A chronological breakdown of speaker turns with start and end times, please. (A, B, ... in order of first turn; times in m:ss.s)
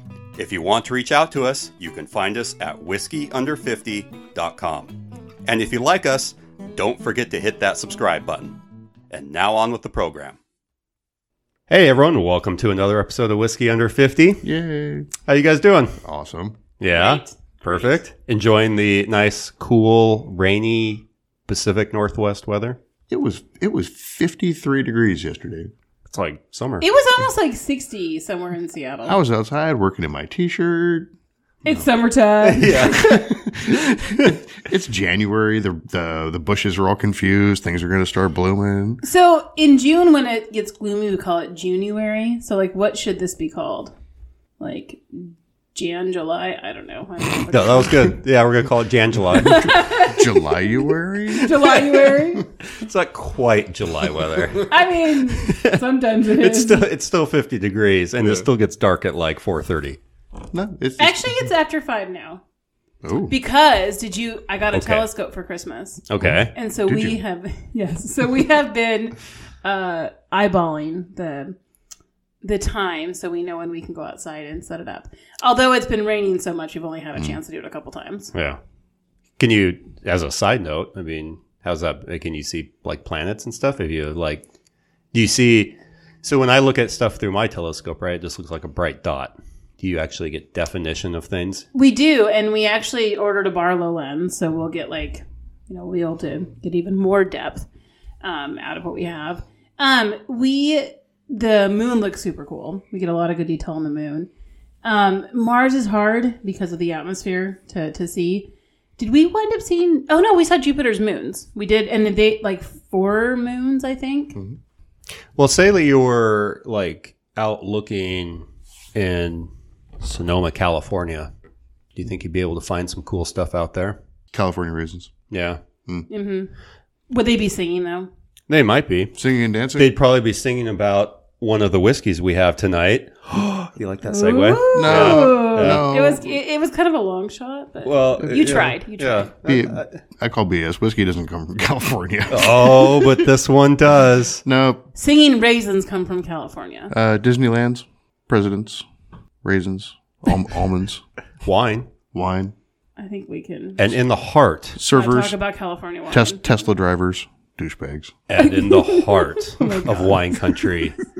0:00.4-0:04.9 A
0:05.4-0:08.6 A
0:09.1-0:10.4 A
0:11.7-0:14.4 A
0:14.4-0:15.1 B
0:15.2-0:16.0 A
0:16.0-0:16.6 B
0:16.8-0:22.8 A
0:16.8-0:18.0 C
0:23.1-0:25.7 B
0:26.1-0:26.9 A
0:26.8-0:29.2 C
0:29.0-0:31.1 B
0:31.6-0:33.2 C
0:32.4-0:34.4 A
0:33.0-0:39.0 B
0:39.0-0:43.9 C
0:44.6-0:48.2 C
0:47.5-0:49.7 A
0:49.3-0:52.5 C
0:49.6-0:52.2 B
0:52.7-0:55.8 A
0:54.6-0:56.9 C
0:56.3-1:00.0 A
0:58.2-0:58.5 B
1:00.5-1:01.5 B
1:01.0-1:02.4 C
1:03.0-1:03.3 B
1:03.3-1:11.6 C
1:04.7-1:05.1 A
1:06.1-1:06.5 A
1:06.2-1:07.2 B
1:12.4-1:18.3 C
1:18.3-1:18.6 A
1:19.4-1:24.4 A
1:25.1-1:31.6 A
1:31.7-1:37.6 C
1:38.2-1:44.3 C
1:44.8-1:54.4 C
1:55.4-1:59.5 A
2:00.0-2:01.3 A
2:02.0-2:04.0 A
2:04.3-2:05.1 B
2:05.3-2:05.6 A
2:06.1-2:06.5 C
2:07.1-2:08.1 C
2:08.5-2:09.2 A
2:09.1-2:09.9 B
2:09.7-2:15.8 A
2:14.0-2:19.3 C
2:14.7-2:16.3 B
2:17.8-2:20.0 A
2:19.4-2:23.3 B
2:22.3-2:24.4 A
2:24.4-2:24.8 B
2:24.9-2:26.9 C
2:26.9-2:28.8 B
2:29.4-2:31.0 B
2:31.4-2:31.9 A
2:32.1-2:32.5 B
2:33.0-2:34.0 C
2:33.8-2:34.8 A
2:34.8-2:35.4 B
2:34.9-2:36.4 C
2:36.1-2:38.1 B
2:38.3-2:41.0 A
2:38.4-2:40.6 C